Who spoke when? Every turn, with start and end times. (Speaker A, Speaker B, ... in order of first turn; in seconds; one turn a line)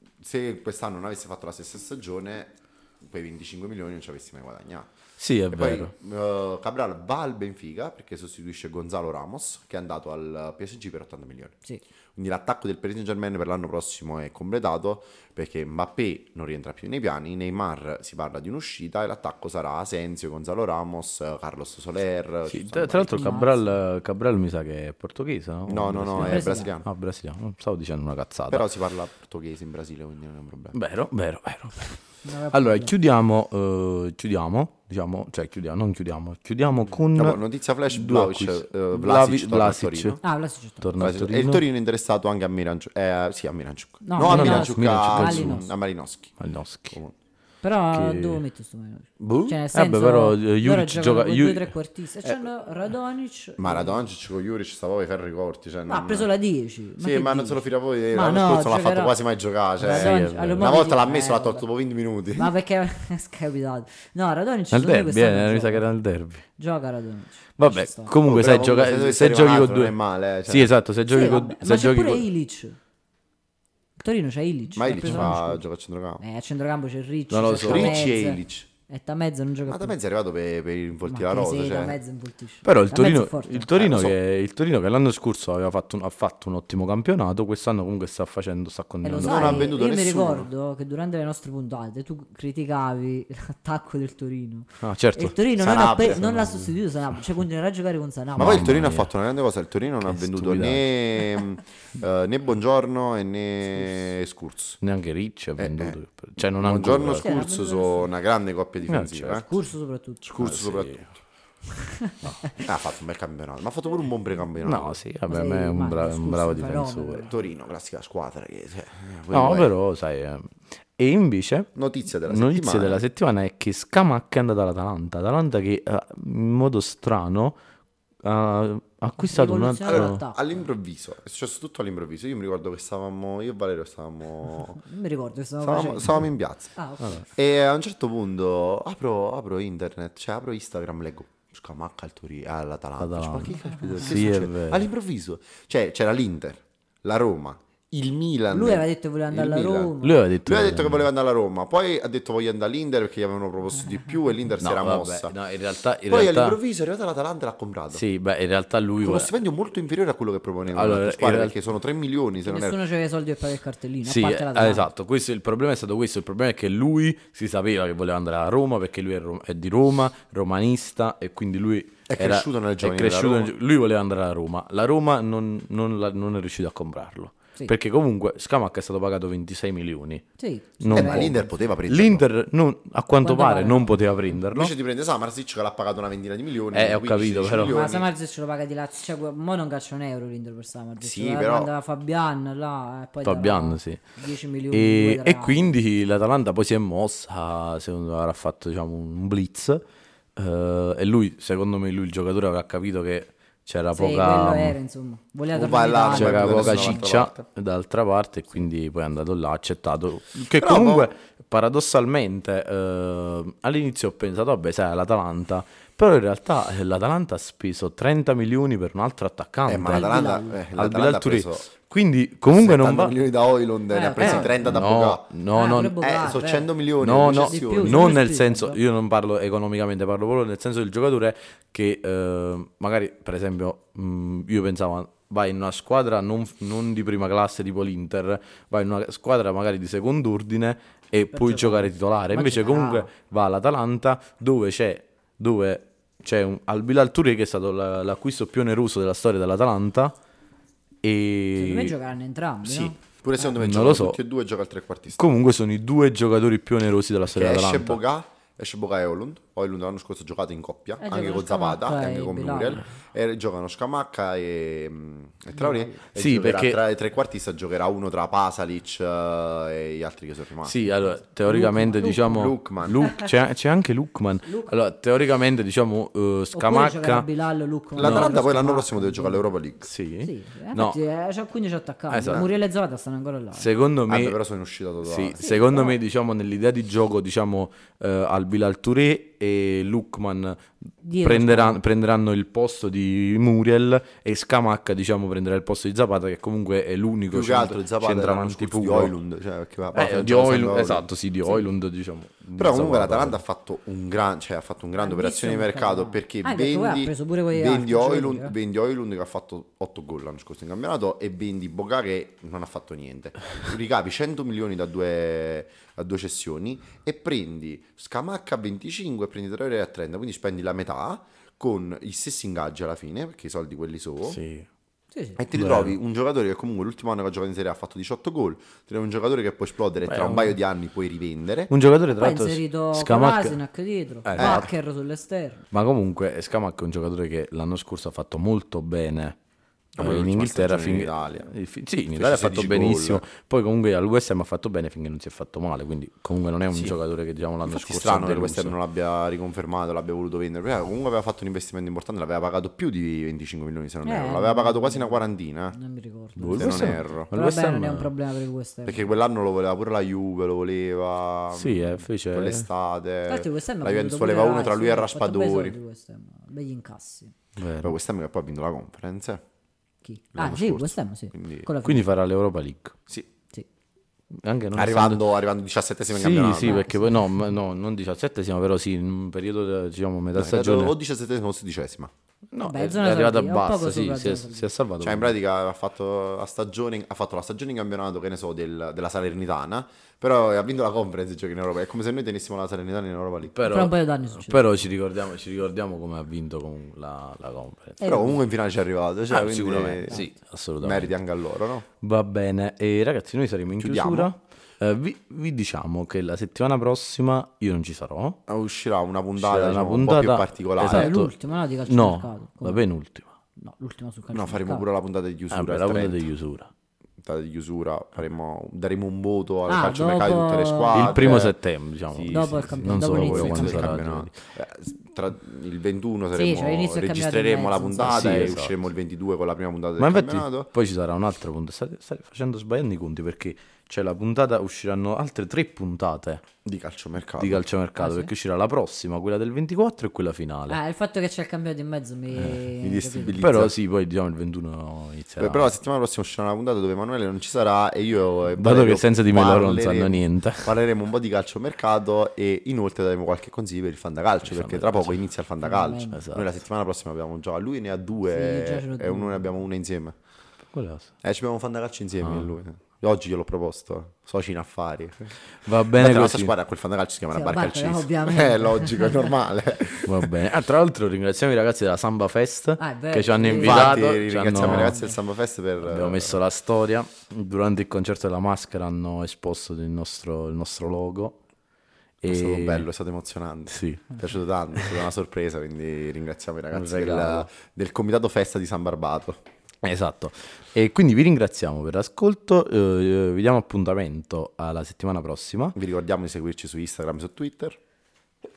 Speaker A: 0.2-4.9
Speaker B: 5.2-5.9
Speaker A: 5.5-11.6
Speaker A: 12.2-23.4
Speaker B: 22.5-28.6
Speaker C: 23.1-23.8
Speaker A: 25.7-26.9
Speaker C: 26.1-26.7
Speaker A: 28.5-30.8
Speaker B: 30.7-32.0
Speaker C: 32.2-32.9
Speaker B: 32.5-40.2
Speaker A: 37.1-40.2
Speaker C: 40.2-40.9
Speaker B: 40.8-41.6
Speaker A: 41.0-46.4
Speaker C: 44.0-45.7
Speaker B: 44.2-45.7
Speaker B: 46.4-47.0
Speaker C: 47.6-54.1
Speaker B: 47.9-48.4
Speaker B: 49.2-51.7
Speaker A: 53.6-56.3
Speaker C: 55.9-57.6
Speaker A: 57.0-62.5
Speaker C: 58.1-59.1
Speaker C: 59.8-61.6
Speaker B: 59.9-60.8
Speaker C: 62.3-65.8
Speaker B: 64.7-66.5
Speaker C: 66.6-68.1
Speaker B: 67.6-72.2
Speaker A: 68.2-70.7
Speaker C: 71.1-72.8
Speaker C: 74.0-75.6
Speaker A: 74.7-76.2
Speaker B: 75.0-75.3
Speaker C: 76.2-79.9
Speaker B: 77.3-78.1
Speaker A: 77.6-78.7
Speaker A: 79.7-82.0
Speaker C: 81.1-83.7
Speaker B: 82.6-89.7
Speaker A: 83.7-84.1
Speaker C: 89.0-99.0
Speaker A: 89.2-90.5
Speaker B: 94.8-96.2
Speaker A: 95.6-96.6
Speaker A: 98.4-104.8
Speaker B: 98.4-99.1
Speaker B: 100.1-101.0
Speaker B: 104.8-107.3
Speaker A: 105.6-109.5
Speaker C: 107.2-108.1
Speaker B: 108.9-109.4
Speaker C: 109.3-110.3
Speaker A: 110.2-111.1
Speaker B: 110.4-111.1
Speaker C: 111.7-112.6
Speaker A: 112.6-115.0
Speaker B: 114.6-117.2
Speaker C: 115.3-117.3
Speaker A: 117.2-119.7
Speaker B: 119.3-121.7
Speaker A: 121.7-123.0
Speaker B: 122.2-127.6
Speaker B: 128.2-130.2
Speaker C: 129.2-130.6
Speaker A: 129.8-134.8
Speaker C: 134.7-137.3
Speaker A: 135.6-136.7
Speaker A: 137.3-155.3
Speaker B: 143.0-144.8
Speaker C: 148.5-150.2
Speaker B: 150.0-151.1
Speaker B: 154.6-156.6
Speaker A: 156.1-158.0
Speaker B: 157.9-159.3
Speaker A: 159.0-162.8
Speaker B: 160.7-161.5
Speaker C: 162.4-164.8
Speaker B: 164.0-180.2
Speaker A: 172.1-173.5
Speaker C: 180.4-181.5
Speaker B: 180.8-184.7
Speaker A: 180.9-182.2
Speaker C: 183.2-183.9
Speaker A: 184.5-188.1
Speaker B: 186.7-187.8
Speaker C: 187.7-195.7
Speaker A: 191.0-191.7
Speaker B: 193.2-194.0
Speaker B: 194.7-199.8
Speaker B: 200.3-204.8
Speaker C: 203.9-207.1
Speaker A: 205.5-207.4
Speaker B: 206.1-223.1
Speaker A: 210.6-211.1
Speaker A: 219.7-221.7
Speaker C: 219.8-220.6
Speaker A: 222.5-225.3
Speaker C: 223.9-224.7
Speaker B: 224.2-225.9
Speaker C: 225.5-228.8
Speaker A: 225.8-228.2
Speaker B: 227.0-250.1
Speaker C: 241.3-243.1
Speaker B: 251.0-251.9
Speaker C: 251.6-252.9
Speaker A: 253.0-255.2
Speaker B: 253.4-254.2
Speaker B: 255.2-258.0
Speaker A: 257.3-270.9
Speaker C: 261.0-262.8
Speaker C: 265.6-266.0
Speaker B: 266.1-266.8
Speaker B: 270.6-277.3
Speaker C: 271.4-272.5
Speaker A: 271.9-273.1
Speaker C: 274.4-274.7
Speaker C: 276.5-279.5
Speaker B: 277.9-278.4
Speaker A: 277.9-279.9
Speaker B: 279.8-281.0
Speaker C: 280.2-283.7
Speaker B: 282.1-282.4
Speaker B: 283.5-284.4
Speaker A: 284.1-285.7
Speaker B: 285.0-299.1
Speaker C: 285.4-286.0
Speaker C: 291.0-291.8
Speaker A: 297.3-301.1
Speaker B: 299.9-303.4
Speaker A: 302.6-324.4
Speaker C: 305.0-308.5
Speaker B: 324.2-324.7
Speaker C: 325.1-325.4
Speaker A: 325.4-331.7
Speaker B: 325.5-325.9
Speaker B: 330.0-330.6
Speaker B: 331.7-333.6
Speaker C: 332.1-335.6
Speaker B: 334.2-334.7
Speaker A: 334.4-334.7
Speaker B: 335.7-339.4
Speaker A: 340.0-341.5
Speaker B: 340.0-348.7
Speaker A: 342.1-343.2
Speaker A: 346.7-346.9
Speaker A: 347.6-355.8
Speaker C: 354.0-359.1
Speaker B: 356.4-358.1
Speaker A: 356.6-357.3
Speaker A: 358.9-365.8
Speaker B: 361.5-362.6
Speaker C: 363.2-367.3
Speaker B: 367.6-367.9
Speaker A: 367.8-369.4
Speaker C: 370.0-372.0
Speaker A: 370.3-371.7
Speaker B: 371.8-372.9
Speaker B: 374.3-375.2
Speaker A: 374.7-376.8
Speaker B: 376.1-380.9
Speaker C: 376.6-377.2
Speaker A: 380.3-382.1
Speaker B: 382.5-385.3
Speaker C: 382.6-384.7
Speaker A: 385.0-393.5
Speaker B: 393.5-398.0
Speaker C: 393.6-394.8
Speaker C: 398.0-398.4
Speaker A: 398.0-400.2
Speaker B: 399.3-401.1
Speaker A: 400.8-401.9
Speaker B: 402.0-408.4
Speaker A: 403.8-404.3
Speaker A: 408.5-411.1
Speaker B: 409.4-411.3
Speaker C: 410.9-412.8
Speaker B: 411.9-413.3
Speaker C: 413.6-414.8
Speaker A: 414.3-416.2
Speaker B: 415.5-416.7
Speaker A: 417.2-421.5
Speaker C: 419.7-421.3
Speaker B: 420.9-424.3
Speaker A: 422.1-430.7
Speaker C: 422.3-423.9
Speaker C: 426.3-428.5
Speaker B: 428.0-428.8
Speaker B: 430.0-436.5
Speaker A: 436.6-437.7
Speaker B: 437.4-440.8
Speaker C: 438.0-438.3
Speaker C: 440.7-443.4
Speaker A: 442.8-443.7
Speaker B: 443.4-445.7
Speaker A: 445.4-460.1
Speaker B: 448.6-450.8
Speaker B: 454.4-455.2
Speaker C: 455.6-456.2
Speaker B: 456.1-456.5
Speaker C: 458.3-459.5
Speaker B: 460.7-461.1
Speaker A: 461.2-465.4
Speaker B: 462.2-462.5
Speaker B: 465.6-466.6
Speaker A: 466.0-470.4
Speaker C: 467.3-469.3
Speaker B: 470.1-475.0
Speaker C: 472.8-474.1
Speaker A: 473.4-476.4
Speaker C: 474.6-475.1
Speaker B: 475.8-481.4
Speaker B: 482.2-482.9
Speaker A: 482.2-489.4
Speaker B: 483.7-484.2
Speaker B: 486.7-487.5
Speaker B: 489.8-495.7
Speaker A: 495.7-497.8